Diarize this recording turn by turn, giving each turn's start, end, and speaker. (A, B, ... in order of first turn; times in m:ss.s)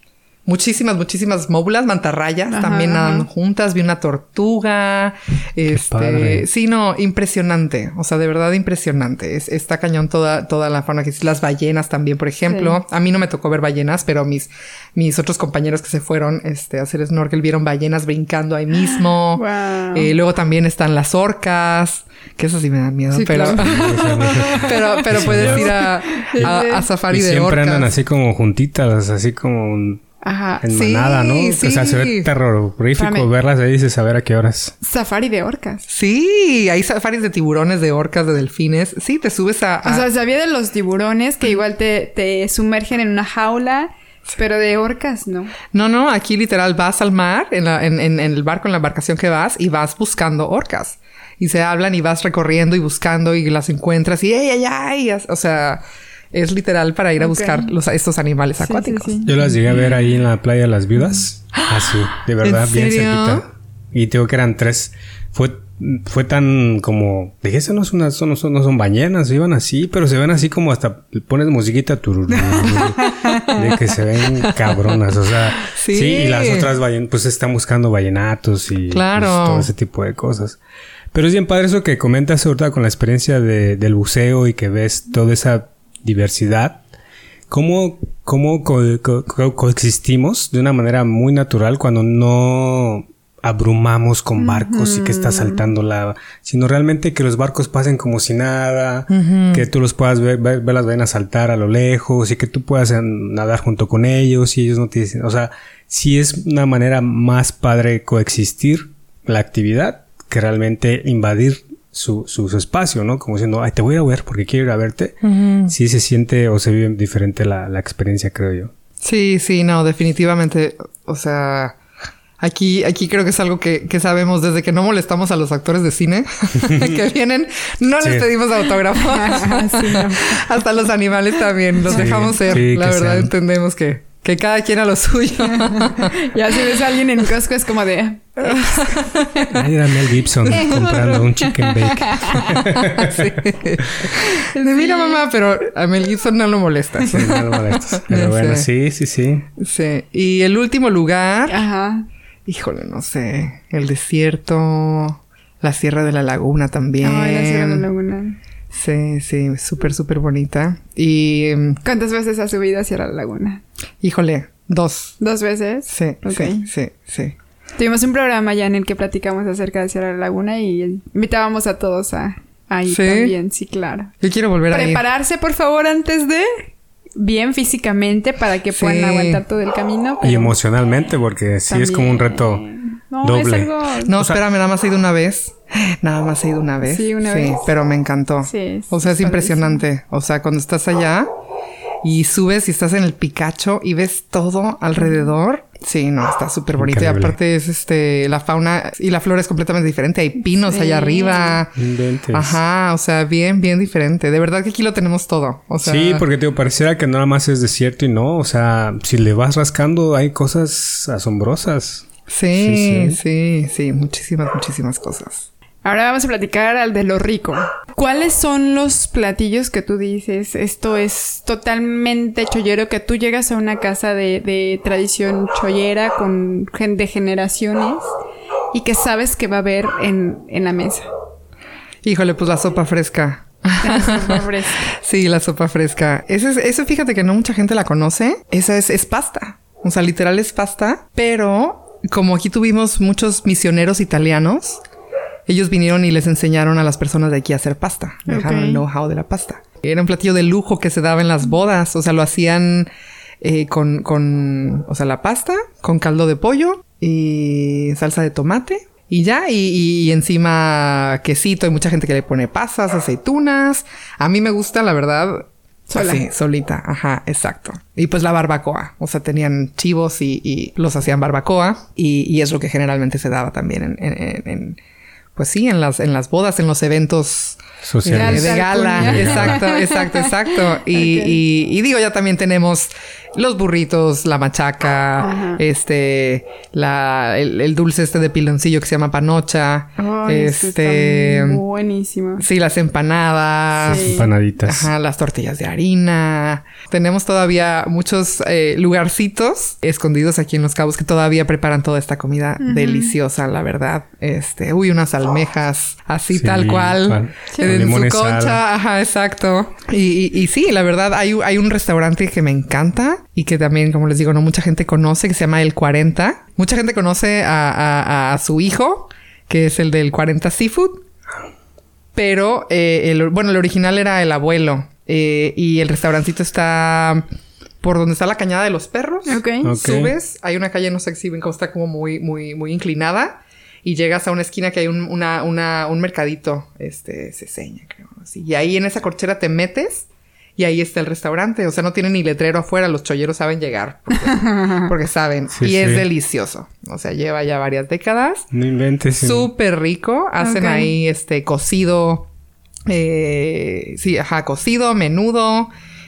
0:00.4-0:27.9 A
0:02.5-0:03.2 B
0:05.7-0:06.4 C
0:12.5-0:12.8 B
0:18.9-0:20.1 B
0:23.1-0:26.9 B
0:23.6-0:25.7 C
0:27.1-0:30.0 C
0:30.2-0:30.7 B
0:30.6-0:34.7 C
0:30.7-0:32.3 A
0:33.0-0:33.3 B
0:34.8-0:35.8 B
0:35.9-0:40.0 A
0:39.8-0:45.6 B
0:45.7-0:59.3 A
0:57.2-0:57.7 B
0:58.6-0:59.6 B
0:59.2-1:20.6 C
1:02.4-1:03.4 A
1:12.6-1:13.0 A
1:13.0-1:13.5 B
1:15.6-1:16.7 A
1:18.9-1:19.7 A
1:21.1-1:26.8 C
1:27.5-1:58.7 C
1:34.4-1:35.7 B
1:39.1-1:39.7 A
1:55.2-1:55.7 A
1:59.0-2:01.8 A
2:02.4-2:16.2 A
2:06.6-2:07.0 C
2:08.0-2:08.3 C
2:09.0-2:10.5 B
2:11.9-2:13.3 C
2:11.9-2:12.6 B
2:15.5-2:19.5 B
2:18.4-2:19.5 A
2:19.5-2:24.1 C
2:20.5-2:22.7 B
2:22.8-2:28.7 A
2:24.4-2:25.2 B
2:27.0-2:29.5 C
2:29.6-2:31.6 A
2:31.5-2:32.1 B
2:32.4-2:37.9 A
2:37.0-2:38.4 B
2:38.7-2:41.8 A
2:41.8-2:43.6 B
2:44.0-2:45.2 A
2:45.2-2:46.7 B
2:45.9-2:47.4 A
2:47.8-2:54.1 B
2:52.9-2:53.3 A
2:54.2-2:55.0 A
2:54.7-2:56.6 B
2:57.2-3:00.5 B
2:58.7-2:59.4 A
3:00.2-3:02.6 C
3:01.7-3:04.1 B
3:03.2-3:04.4 C
3:04.0-3:11.3 A
3:06.8-3:07.6 B
3:08.5-3:09.8 B
3:12.0-3:21.8 A
3:16.8-3:17.4 C
3:20.6-3:21.6 B
3:21.7-3:22.6 C
3:22.3-3:26.2 A
3:25.8-3:33.2 C
3:32.3-3:35.5 A
3:35.8-3:48.0 B
3:48.7-3:51.0 B
3:52.0-4:04.8 A
3:53.8-3:54.9 B
4:05.5-4:12.9 A
4:08.3-4:08.8 B
4:13.4-4:34.8 A
4:25.9-4:26.2 B
4:35.3-4:51.6 A
4:37.8-4:39.6 C
4:38.1-4:41.4 B
4:45.2-4:45.6 B
4:50.0-4:52.4 B
4:52.4-5:21.0 A
4:53.8-4:54.9 C
4:53.9-4:54.3 B
5:02.6-5:03.1 B
5:06.3-5:08.6 C
5:22.1-5:27.2 A
5:27.8-5:48.5 A
5:29.3-5:29.7 B
5:29.6-5:30.1 C
5:44.3-5:44.9 B
5:45.5-5:46.1 C
5:48.5-5:49.5 C
5:49.1-5:52.3 A
5:50.4-5:50.9 B
5:52.9-5:55.7 A